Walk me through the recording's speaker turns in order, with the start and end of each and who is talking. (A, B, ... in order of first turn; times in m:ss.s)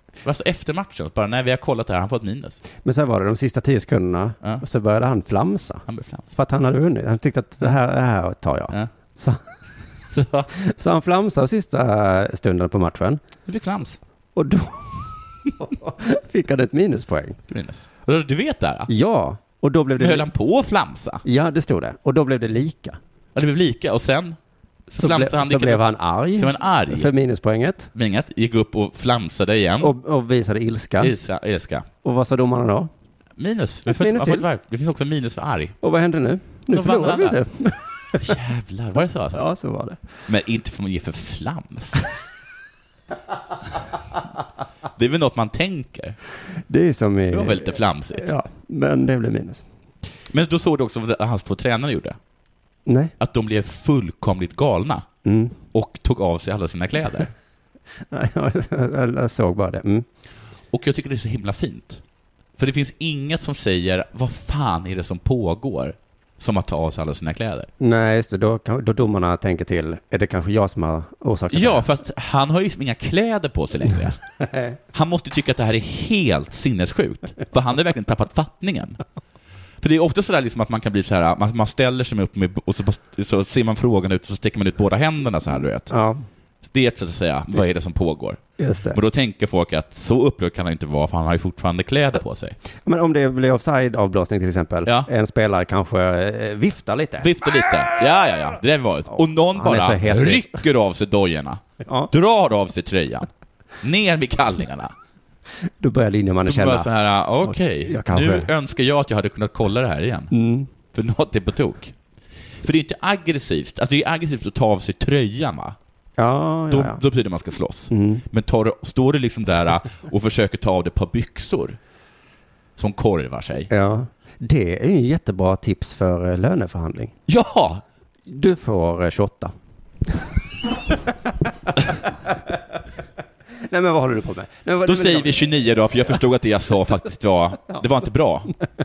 0:00.2-0:02.6 A
0:02.8-0:09.4 B
0:05.9-0:06.3 A
0:10.1-0:10.5 A
0:10.6-0:13.2 B
0:13.5-0:14.0 A
0:14.4-0:17.4 B
0:17.5-0:18.9 A
0:18.9-0:20.3 B
0:20.0-0:21.2 A
0:21.2-0:23.0 B
0:23.4-0:24.4 A
0:24.9-0:27.1 A
0:25.0-0:27.9 B
0:27.9-0:29.9 A
0:29.8-0:31.2 B
0:31.0-0:31.8 A
0:32.0-0:32.9 B
0:33.4-0:35.8 A
0:33.9-0:34.5 B
0:35.8-0:38.3 B
0:36.7-0:37.4 A
0:38.2-0:39.4 A
0:39.3-0:40.0 B
0:40.3-0:42.0 A
0:45.0-0:46.2 A
0:46.7-0:49.6 B
0:47.3-0:48.3 A
0:50.3-0:52.2 A
0:52.9-0:53.1 B
0:53.2-0:55.1 A
0:55.2-0:55.6 B
0:55.7-0:57.3 A
0:58.1-1:00.0 B
1:00.7-1:02.0 A
1:02.6-1:07.7 A
1:07.8-1:11.9 B
1:11.5-1:14.2 A
1:14.5-1:14.8 B
1:14.9-1:19.0 A
1:19.8-1:25.9 A
1:25.9-1:26.2 B
1:26.6-1:32.6 A
1:28.6-1:29.0 B
1:32.8-1:37.3 B
1:37.2-1:43.3 A
1:39.2-1:40.6 B
1:41.8-1:42.1 B
1:43.8-1:44.9 A
1:45.8-1:46.9 B
1:46.4-1:50.3 A
1:47.4-1:48.5 B
1:50.3-1:50.7 B
1:50.9-1:52.0 A
1:52.6-1:55.8 A
1:56.2-1:57.0 B
1:56.7-2:01.8 A
1:57.9-1:58.2 B
2:02.8-2:03.7 A
2:03.7-2:07.2 B
2:07.3-2:07.8 A
2:08.3-2:09.5 B
2:13.7-2:15.5 B
2:14.8-2:18.5 A